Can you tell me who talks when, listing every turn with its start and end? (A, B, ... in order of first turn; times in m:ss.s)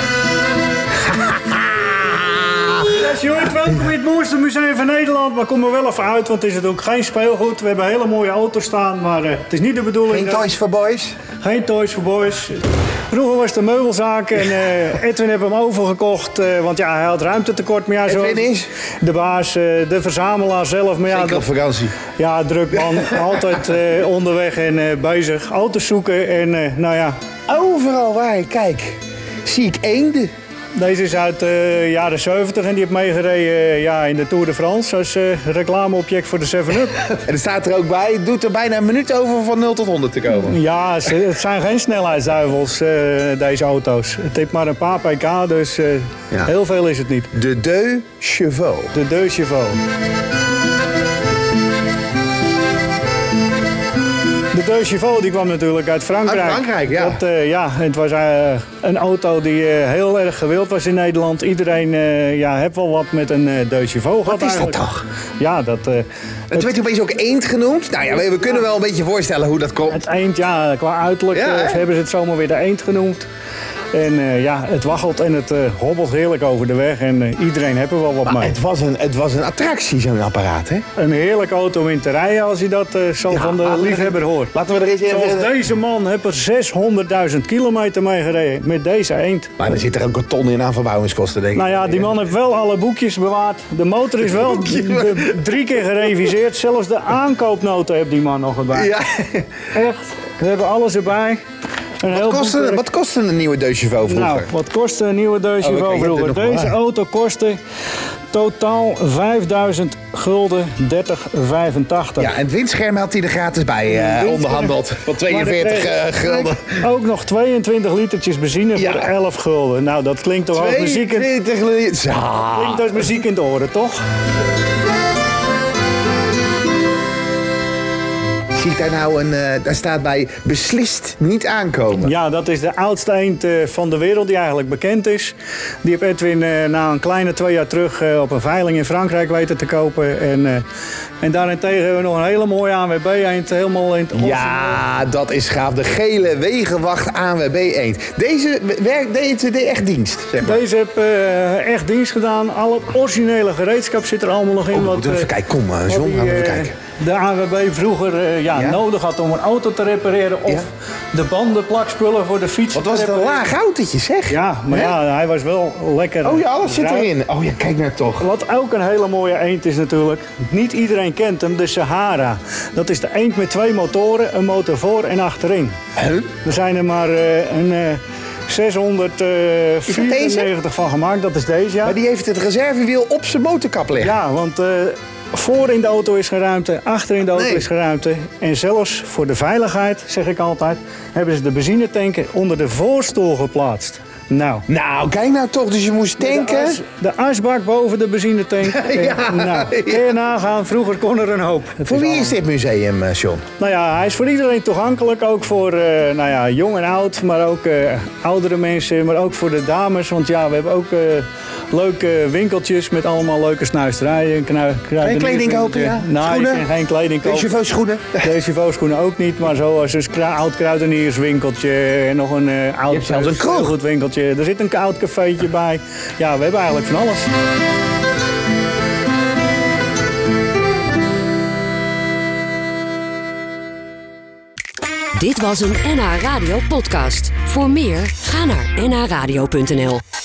0:01.0-0:02.9 A
0:02.9-0:10.5 B
0:10.1-0:11.2 A
0:11.4-0:18.5 B
0:18.1-0:18.7 A
0:19.0-0:21.5 B
0:21.1-0:22.0 A
0:22.2-0:27.2 B
0:27.5-0:30.3 A
0:30.8-0:37.0 B
0:37.1-0:40.6 A
0:40.4-0:47.3 B
0:47.3-0:48.9 A
0:48.9-0:49.8 B
0:54.5-1:04.8 B
0:56.3-0:57.2 A
1:04.3-1:05.0 A
1:05.4-1:06.7 B
1:06.5-1:10.0 A
1:09.9-1:13.3 B
1:11.3-1:11.8 A
1:13.9-1:18.6 B
1:18.3-1:20.8 A
1:21.0-1:24.5 B
1:23.3-1:25.6 A
1:25.1-1:29.5 B
1:29.6-1:32.1 A
1:31.6-1:38.9 B
1:34.2-1:35.4 A
1:38.7-1:39.5 A
1:39.7-1:41.4 B
1:42.0-1:42.8 B
1:42.1-1:44.5 A
1:44.1-1:47.6 B
1:45.6-1:46.8 A
1:48.3-1:52.3 B
1:52.2-1:56.8 A
1:53.9-2:01.3 B
1:58.8-1:59.1 A
2:00.5-2:03.1 A
2:02.5-2:04.0 B
2:08.6-2:12.2 A
2:12.0-2:20.6 B
2:21.2-2:24.8 B
2:24.1-2:30.6 A
2:30.4-2:35.3 B
2:34.7-2:36.7 A
2:35.9-2:43.5 B
2:38.5-2:38.8 A
2:42.7-2:45.0 A
2:44.3-2:47.1 B
2:46.2-2:48.3 A
2:48.2-2:55.8 B
2:56.0-2:56.3 A
2:56.4-3:02.0 B
2:59.9-3:00.5 A
3:01.8-3:04.2 A
3:04.0-3:14.7 B
3:07.3-3:07.7 A
3:14.7-3:16.8 A
3:16.2-3:22.4 B
3:18.6-3:20.2 A
3:21.9-3:23.4 A
3:23.6-3:37.5 B
3:35.0-3:36.7 A
3:37.2-3:38.3 A
3:38.1-3:47.3 B
3:42.9-3:43.8 A
3:55.2-4:00.0 C